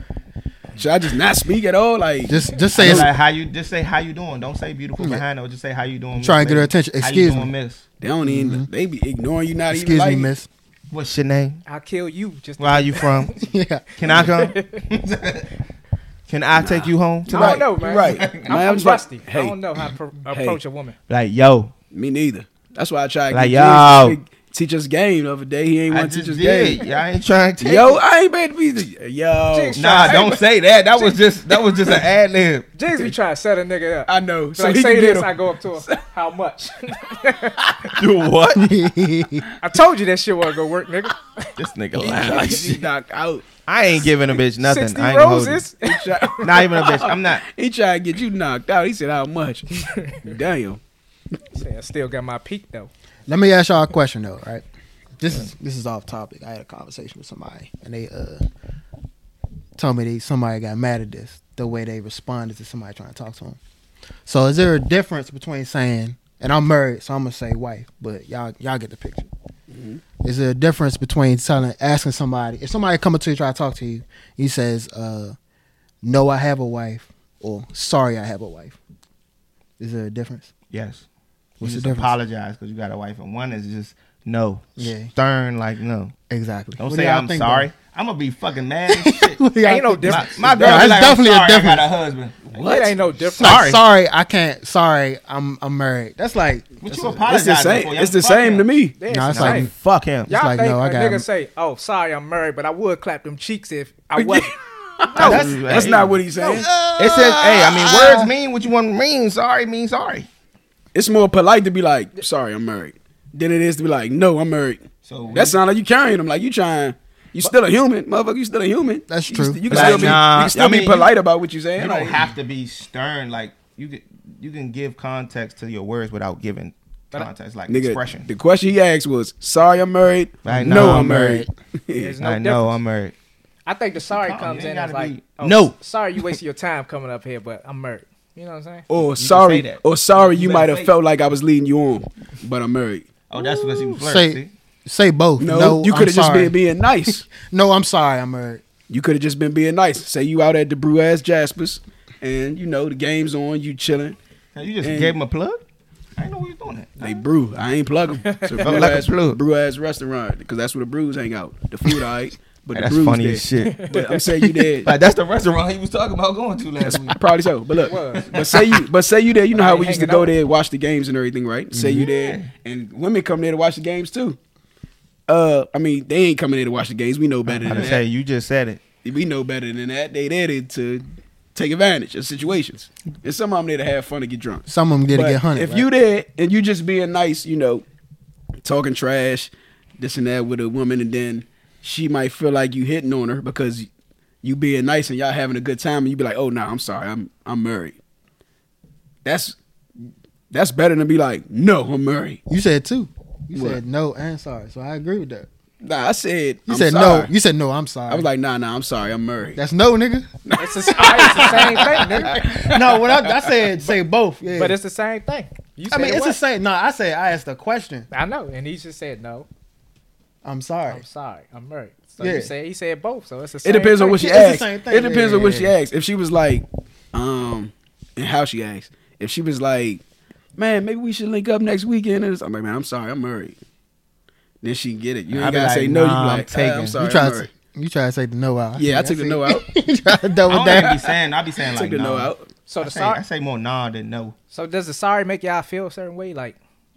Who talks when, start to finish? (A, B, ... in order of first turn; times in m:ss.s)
0:00.8-0:03.1 A
0:02.3-0:03.1 B
0:02.8-0:07.8 C
0:05.0-0:05.2 B
0:06.2-0:07.5 B
0:08.0-0:10.3 A
0:08.2-0:08.7 B
0:09.7-0:10.5 B
0:10.9-0:11.6 C
0:11.7-0:13.5 D
0:12.6-0:13.4 C
0:13.4-0:13.9 B
0:14.0-0:15.5 C
0:14.1-0:14.8 D
0:16.3-0:18.6 C
0:16.6-0:19.6 A
0:17.3-0:21.0 D
0:20.3-0:20.6 A
0:21.1-0:21.7 C
0:21.9-0:26.8 A
0:23.3-0:24.2 C
0:25.9-0:28.0 C
0:27.6-0:30.3 A
0:29.5-0:30.4 D
0:29.8-0:32.7 C
0:32.8-0:38.0 D
0:34.1-0:36.0 A
0:37.9-0:38.8 C
0:38.6-0:39.5 B
0:39.6-0:42.7 D
0:41.6-0:42.8 C
0:42.0-0:43.5 A
0:43.7-0:45.6 C
0:44.6-0:47.1 D
0:45.8-0:50.8 A
0:46.4-0:47.4 C
0:49.7-0:50.2 D
0:51.5-0:52.9 D
0:53.3-0:54.6 B
0:55.2-0:58.4 B
0:59.8-1:03.6 B
1:04.3-1:09.3 B
1:09.7-1:10.0 A
1:10.2-1:15.4 B
1:16.0-1:18.8 B
1:19.8-1:20.5 B
1:20.7-1:21.1 C
1:21.6-1:22.2 B
1:21.6-1:26.2 C
1:24.8-1:25.1 B
1:26.3-1:27.7 B
1:26.8-1:29.4 C
1:28.9-1:31.9 B
1:29.6-1:30.8 D
1:30.0-1:33.8 C
1:30.6-1:30.9 A
1:32.5-1:33.0 A
1:32.6-1:33.8 D
1:33.4-1:37.2 B
1:36.8-1:38.7 C
1:37.2-1:38.9 A
1:39.0-1:39.7 D
1:39.1-1:39.7 B
1:39.3-1:40.3 C
1:40.3-1:44.5 D
1:40.3-1:41.3 B
1:44.2-1:48.3 A
1:45.1-1:45.7 D
1:45.2-1:46.2 C
1:45.2-1:45.6 B
1:46.4-1:46.7 D
1:47.0-1:50.3 C
1:50.9-2:02.2 A
1:55.0-1:55.6 C
1:59.1-2:00.2 B
1:59.7-2:01.1 C
2:01.8-2:08.3 C
2:07.7-2:12.2 A
2:10.4-2:11.4 C
2:10.5-2:11.5 B
2:12.0-2:12.8 D
2:12.2-2:13.2 C
2:13.7-2:18.9 D
2:14.1-2:15.8 C
2:18.9-2:23.1 A
2:19.2-2:20.9 C
2:23.3-2:24.5 C
2:23.4-2:23.9 D
2:24.0-2:26.6 B
2:25.4-2:27.3 A
2:27.3-2:28.6 B
2:28.9-2:34.2 A
2:34.6-2:35.6 C
2:34.8-2:35.2 A
2:36.2-2:37.0 C
2:37.0-2:44.9 A
2:38.2-2:38.8 D
2:38.6-2:39.4 C
2:42.7-2:43.9 C
2:43.6-2:44.2 D
2:44.8-2:47.2 C
2:46.8-2:54.4 A
2:47.9-2:48.3 D
2:47.9-2:48.8 C
2:49.5-2:50.4 D
2:51.7-2:52.1 B
2:52.0-2:52.5 C
2:55.3-2:58.0 A
2:57.5-2:58.8 C
2:59.0-3:07.8 A
3:04.7-3:05.9 B
3:08.6-3:13.9 A
3:14.4-3:18.0 A
3:19.2-3:22.4 A
3:22.5-3:25.5 B
3:23.5-3:23.8 A
3:25.8-3:27.3 A
3:26.7-3:28.3 B
3:28.1-3:29.6 A
3:29.6-3:30.3 B
3:30.4-3:33.5 A
3:30.6-3:32.4 D
3:30.9-3:34.8 B
3:34.5-3:36.4 D
3:35.9-3:38.1 B
3:38.1-3:39.5 D
3:40.4-3:41.0 B
3:40.9-3:44.2 D
3:42.2-3:42.5 B
3:43.6-3:50.0 A
3:44.0-3:45.8 B
3:50.6-3:53.6 A
3:54.6-3:57.5 A
3:55.3-3:57.0 C
3:57.0-4:01.0 B
3:58.8-3:59.7 A
4:00.5-4:04.4 C
4:00.7-4:01.1 A
4:01.6-4:02.5 A
4:02.7-4:03.2 D
4:04.5-4:06.6 D